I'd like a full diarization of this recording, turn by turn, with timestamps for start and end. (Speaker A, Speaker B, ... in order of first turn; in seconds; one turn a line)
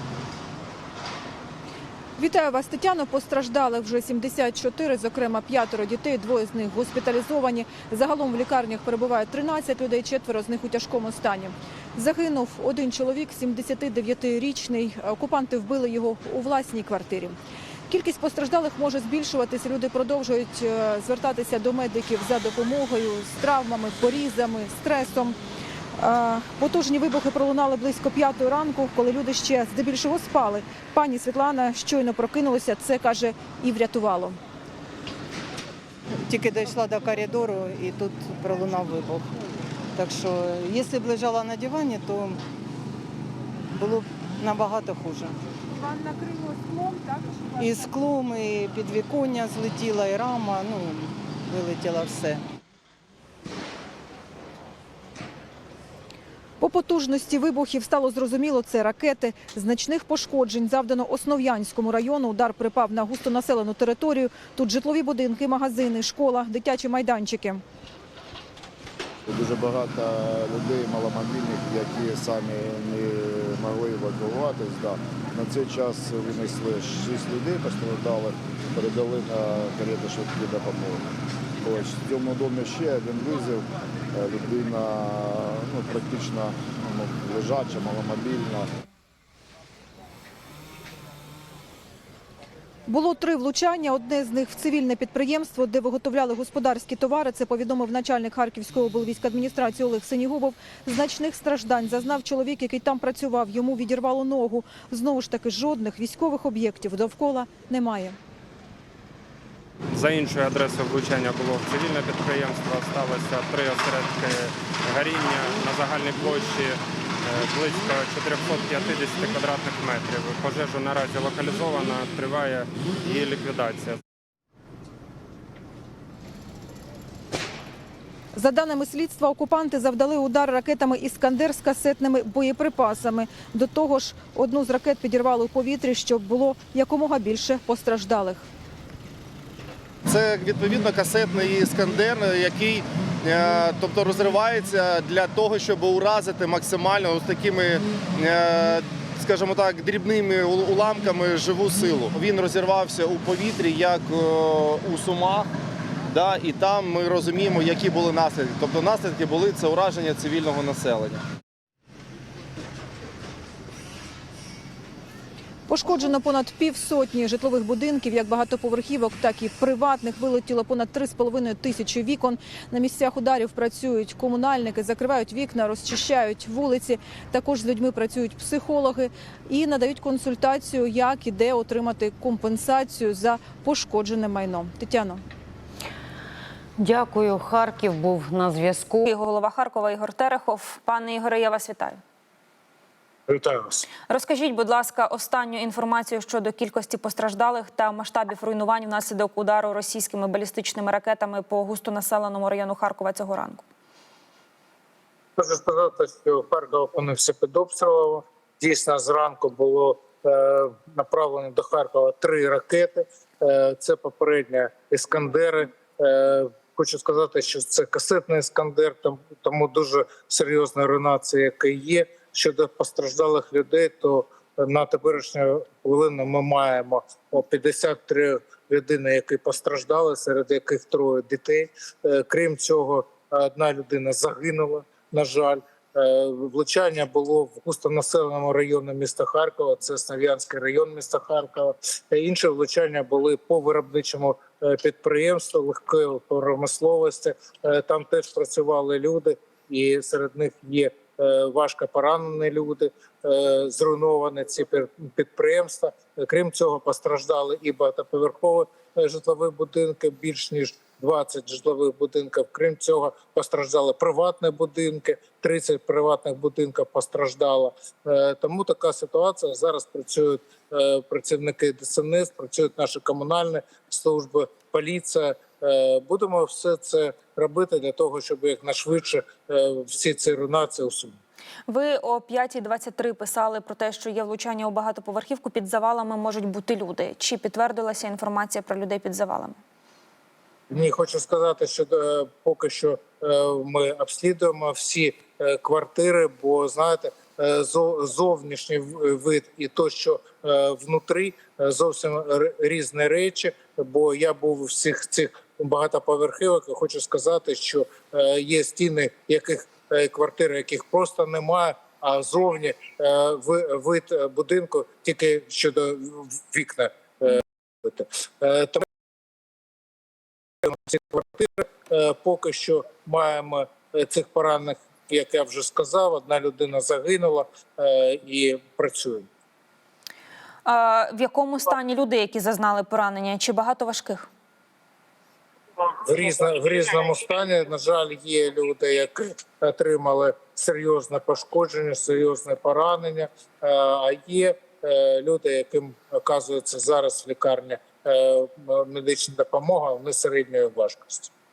Speaker A: 2.2-17.4
Speaker A: 17.9-25.4
Speaker A: 26.0-34.4
Speaker B: 36.2-39.3
Speaker B: 40.0-42.4
Speaker B: 43.8-45.4
Speaker A: 46.0-47.1
Speaker B: 47.6-52.4
Speaker A: 56.6-67.6
Speaker C: 69.3-81.0
Speaker C: 81.6-88.7
Speaker A: 92.9-108.2
Speaker D: 109.9-124.0
Speaker A: 128.3-138.5
Speaker E: 140.1-155.5
Speaker E: 156.1-161.2
Speaker A: 165.7-185.2
Speaker F: 186.8-189.1
Speaker G: 189.1-192.0
Speaker H: 193.3-193.8
Speaker G: 194.0-203.6
Speaker H: 205.4-281.2
Speaker G: 281.7-289.6
Speaker H: 290.7-318.8
Speaker H: 320.6-329.3
Speaker G: 330.6-334.3
Speaker H: 336.0-351.3